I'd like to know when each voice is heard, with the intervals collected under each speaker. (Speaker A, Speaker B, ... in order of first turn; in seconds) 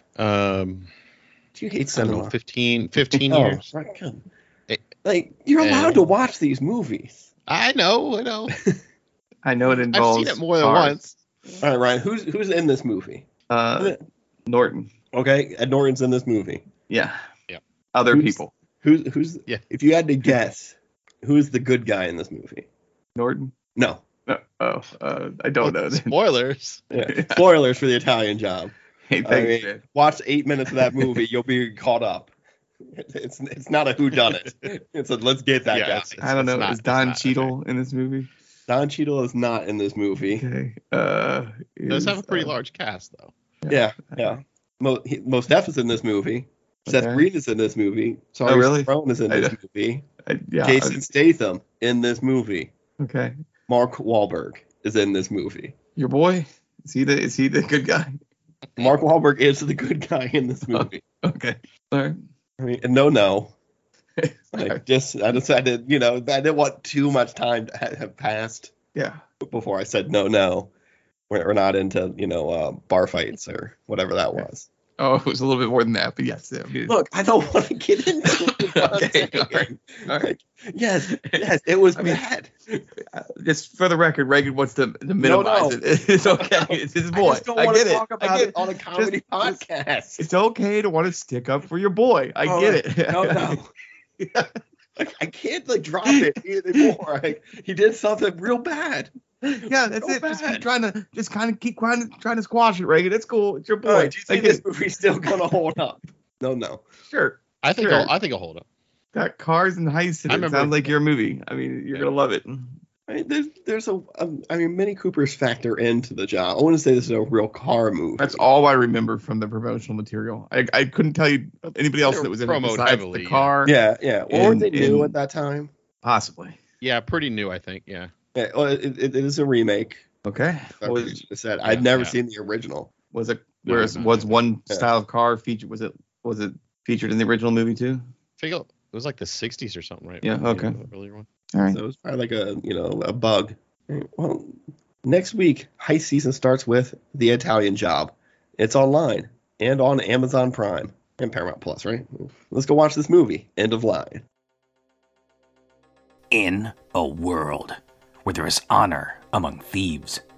Speaker A: 0.2-0.9, 1.9-3.7, 5.6-6.1, 7.5-8.5, 9.7-11.2, 25.6-26.8, 35.7-37.5, 41.9-43.3, 107.6-108.6, 110.3-110.9, 121.8-123.5, 126.8-128.1, 131.6-132.2, 133.6-134.4, 138.4-141.3
Speaker B: 1.5-2.3, 3.3-4.2, 5.0-7.3, 11.6-13.3, 15.1-16.6, 18.1-22.6, 23.8-24.0, 26.9-32.3, 32.9-36.2, 38.7-40.5, 43.7-50.0, 50.6-52.7, 53.7-55.7, 58.8-61.0, 62.6-63.5, 64.5-68.7, 69.4-70.7, 71.3-74.7, 76.9-82.8, 85.2-90.2, 92.4-93.7, 95.0-100.7, 103.8-106.8, 113.1-118.4, 123.6-125.7, 128.3-130.0, 130.8-132.9, 141.7-154.2
Speaker C: 9.4-11.0, 13.5-14.9, 16.9-17.2, 17.9-18.5, 23.1-23.5, 24.3-26.1, 27.0-27.4, 29.1-29.8, 36.2-38.3, 40.2-42.5, 43.6-44.4, 46.9-47.2, 48.5-49.5, 50.2-51.0, 53.0-53.4, 56.0-58.2, 60.7-62.2, 64.2-64.8, 68.9-69.2, 75.0-77.0, 78.3-80.3, 81.1-81.4, 81.9-82.2, 83.1-89.6, 90.2-93.6, 94.2-94.5, 99.5-104.6, 107.1-108.1, 109.1-112.8, 118.2-123.7, 124.3-125.2, 126.0-126.6, 130.2-131.2, 133.1-138.0, 140.2-140.8, 141.5-141.8
Speaker D: 156.3-160.2